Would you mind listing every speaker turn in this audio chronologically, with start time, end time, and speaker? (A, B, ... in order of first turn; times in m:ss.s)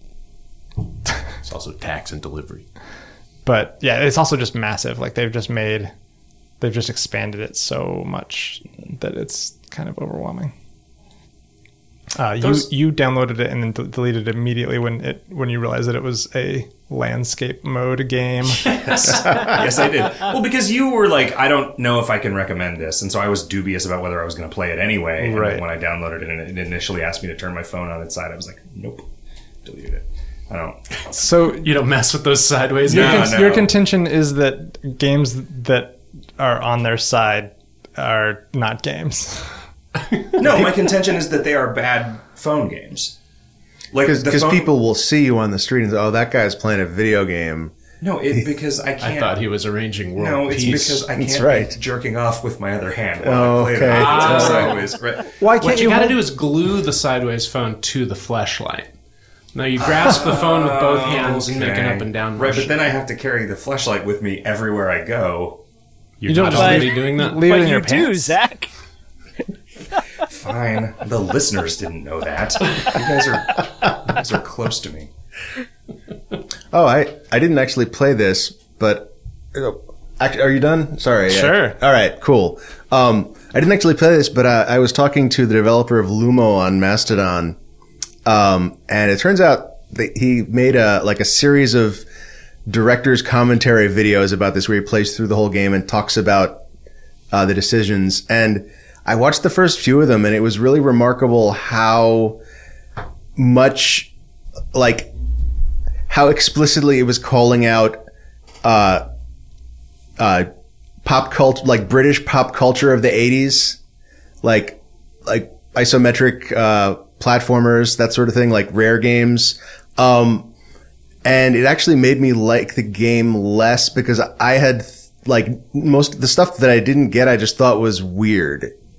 0:01.4-0:02.7 A
0:03.4-0:05.9 B
0:06.6-0:10.5 B
0:12.2-0:19.6 B
0:18.6-0:19.5 A
0:19.1-0:29.1 C
0:25.2-0:25.6 B
0:29.6-0:30.8 C
0:31.1-0:31.7 B
0:31.5-0:33.4 A
0:32.9-0:39.6 B
0:32.9-0:33.7 C
0:40.4-0:40.7 B
0:40.4-0:43.2 C
0:43.9-0:44.7 C
0:44.0-0:47.7 D
0:48.0-0:49.4 C
0:49.0-0:51.1 A
0:50.2-0:55.3 C
0:51.1-0:51.8 D
0:53.2-0:54.8 D
0:53.9-0:54.8 A
0:55.4-0:56.2 B
0:55.6-0:58.9 A
0:59.5-1:02.7 A
0:59.8-1:05.6 C
1:06.2-1:07.6 A
1:06.3-1:08.4 B
1:06.5-1:08.7 E
1:10.3-1:15.1 C
1:16.7-1:27.6 D
1:21.3-1:21.8 B
1:28.2-1:32.0 D
1:32.7-1:36.6 D
1:37.3-1:42.4 D
1:43.4-1:44.1 D
1:44.7-1:45.1 D
1:46.1-1:48.0 D
1:48.6-1:49.0 D
1:50.2-1:50.5 D
1:51.0-1:53.8 D
1:54.4-2:00.5 D
2:01.2-2:08.7 D